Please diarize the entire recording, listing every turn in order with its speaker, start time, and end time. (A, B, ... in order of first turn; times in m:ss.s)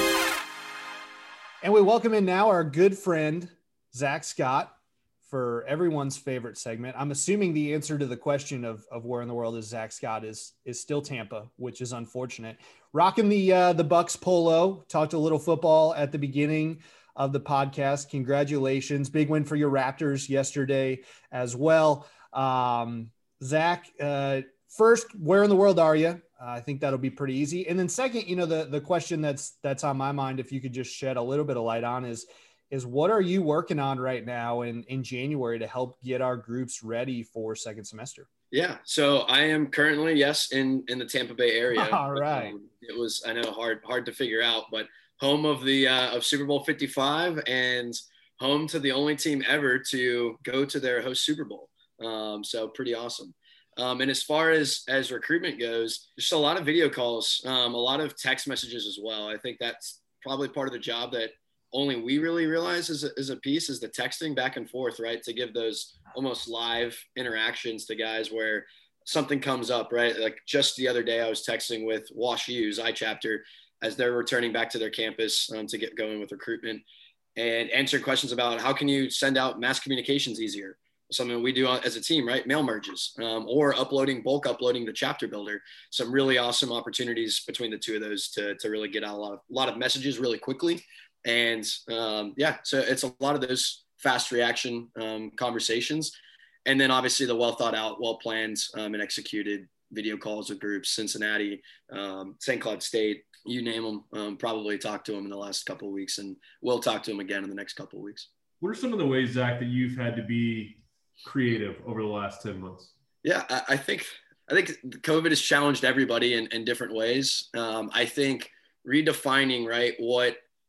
0:01.6-0:38.3 A
0:38.5-1:16.8 B
0:41.7-0:42.5 A
1:17.4-1:36.1 B
1:36.6-1:48.3 B
1:48.6-1:52.9 C
1:53.2-2:00.4 B